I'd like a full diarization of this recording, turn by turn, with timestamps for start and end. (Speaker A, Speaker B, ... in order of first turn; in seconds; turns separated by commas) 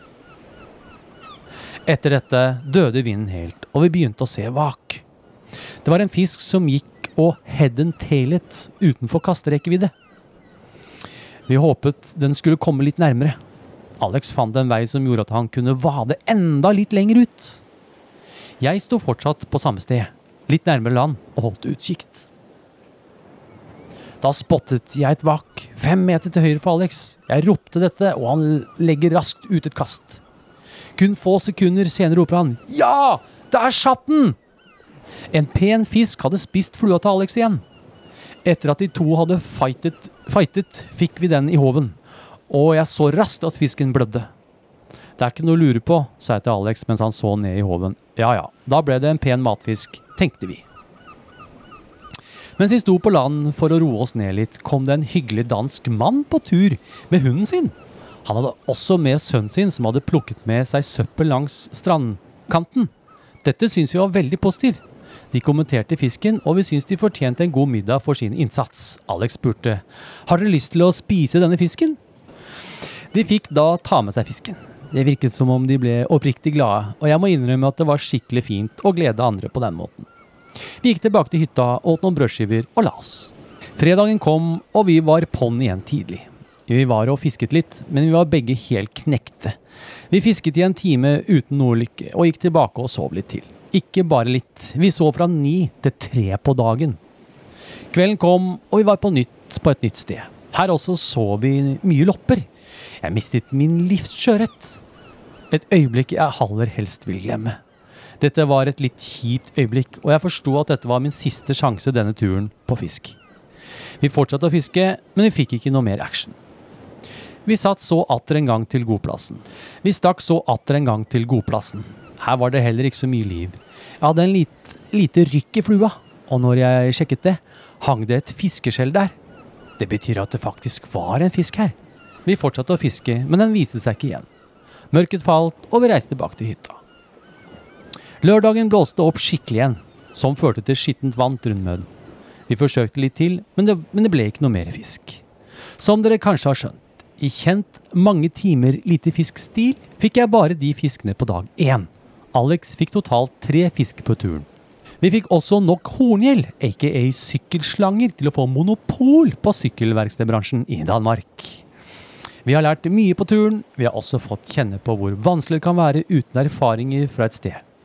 Speaker A: 1.9-5.0, Speaker A: 5.8-9.9, Speaker A: 11.5-13.4, Speaker A: 14.0-17.6, Speaker A: 18.6-22.3, Speaker A: 24.2-30.2, Speaker A: 31.0-34.4, Speaker A: 35.3-37.6, Speaker A: 38.5-42.0, Speaker A: 42.5-44.3, Speaker A: 45.2-50.6, Speaker A: 52.6-62.9, Speaker A: 63.4-64.8, Speaker A: 65.3-72.0, Speaker A: 73.1-80.1, Speaker A: 80.8-89.6, Speaker A: 90.1-97.0, Speaker A: 97.9-102.5, Speaker A: 103.0-104.8, Speaker A: 105.5-107.6, Speaker A: 108.2-113.2, Speaker A: 114.0-116.4, Speaker A: 117.5-129.2, Speaker A: 129.8-131.8, Speaker A: 132.3-134.3, Speaker A: 134.9-136.8, Speaker A: 138.2-141.9, Speaker A: 142.5-145.2, Speaker A: 145.8-154.5, Speaker A: 155.0-161.6, Speaker A: 162.4-167.6